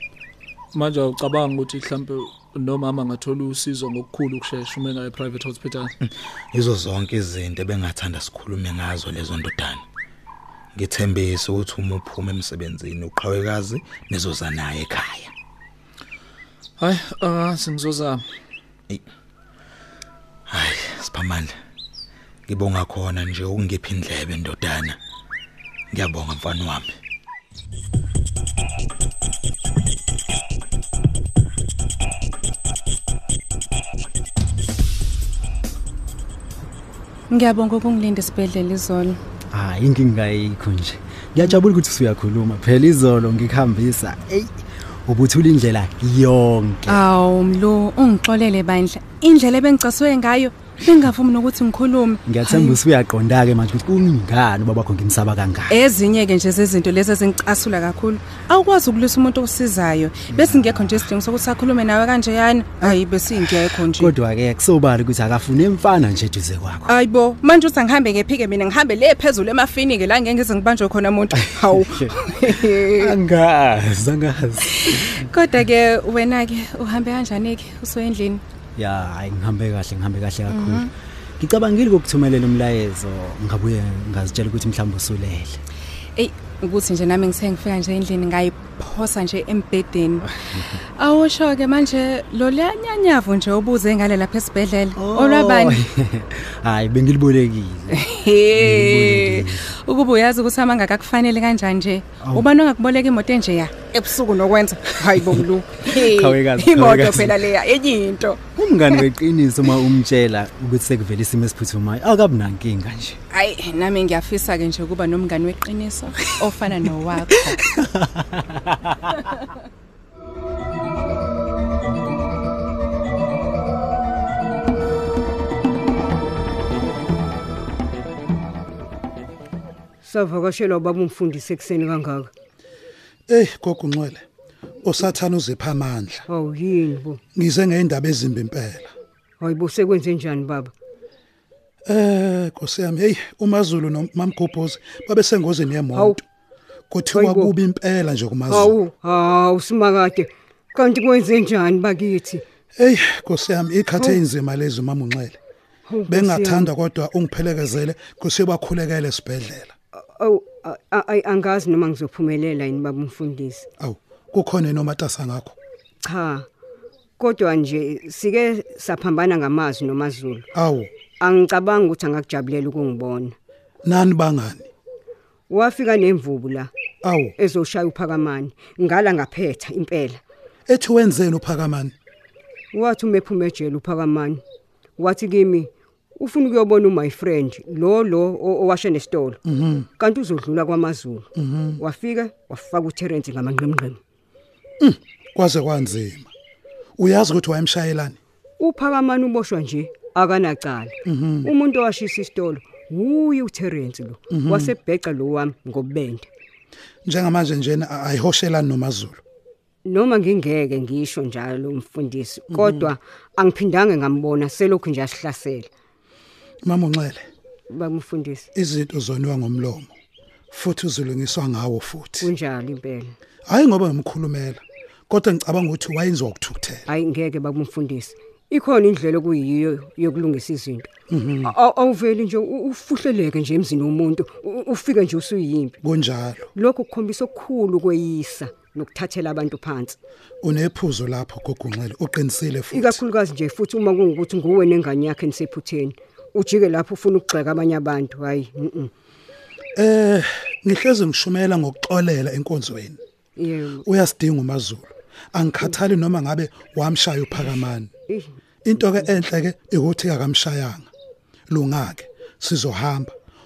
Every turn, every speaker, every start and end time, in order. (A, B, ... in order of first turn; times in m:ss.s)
0:00.7-0:05.9 A
0:06.0-0:09.8 B
0:10.7-0:15.3 B
0:16.8-0:18.2 A
0:20.5-0:21.5 B
0:22.5-0:25.0 B
0:25.9-0:26.9 B
0:37.3-0:39.2 C
0:39.5-0:47.0 D
0:46.9-0:52.8 C
0:52.2-0:55.7 D
0:55.7-1:04.2 C
1:04.0-1:06.8 D
1:06.8-1:13.2 C
1:12.9-1:15.2 D
1:14.8-1:18.4 C
1:18.8-1:20.8 D
1:20.5-1:20.9 C
1:21.4-1:25.6 D
1:26.1-1:30.3 C
1:31.0-1:35.8 C
1:35.0-1:38.0 D
1:37.9-1:49.1 C
1:38.6-1:39.7 D
1:46.2-1:47.3 D
1:48.5-1:53.2 D
1:53.3-1:57.6 C
1:57.9-1:58.4 D
2:10.0-2:12.3 E
2:13.3-2:14.2 F
2:14.8-2:16.2 F
2:16.3-2:17.2 E
2:17.3-2:18.9 F
2:19.4-2:20.7 E
2:21.8-2:26.2 F
2:26.9-2:28.8 F
2:27.2-2:27.5 E
2:28.5-2:32.4 E
2:32.8-2:35.4 F
2:35.9-2:36.6 E
2:36.1-2:39.7 F
2:39.9-2:43.6 E
2:43.8-2:45.6 F
2:46.0-2:46.4 E
2:47.2-2:50.4 E
2:50.5-2:50.9 F
2:51.2-2:53.3 E
2:53.8-2:54.7 F
2:55.5-2:56.7 E
2:57.0-2:57.4 F
2:57.4-3:00.2 E
3:00.7-3:01.9 F
3:02.7-3:04.4 E
3:05.0-3:09.4 E
3:09.4-3:09.9 F
3:10.0-3:11.2 E
3:11.4-3:11.8 F
3:11.8-3:14.0 E
3:14.8-3:16.3 F
3:17.0-3:18.2 F
3:18.6-3:20.9 E
3:21.0-3:21.5 F
3:21.4-3:26.3 E
3:24.3-3:24.7 F
3:27.0-3:29.2 F
3:29.8-3:35.7 E
3:32.5-3:32.9 F
3:36.6-3:37.2 F
3:37.7-3:38.4 E
3:38.5-3:39.9 F
3:40.5-3:42.3 F
3:42.2-3:43.1 E
3:43.5-3:46.8 F
3:46.9-3:50.9 E
3:51.1-3:51.5 F
3:51.4-3:55.7 E
3:55.8-3:56.5 F
3:56.6-4:00.0 E
4:00.4-4:03.0 F
4:02.7-4:08.9 E
4:09.8-4:13.0 F
4:13.4-4:13.8 E
4:13.8-4:17.9 F
4:18.6-4:20.9 F
4:21.5-4:23.1 F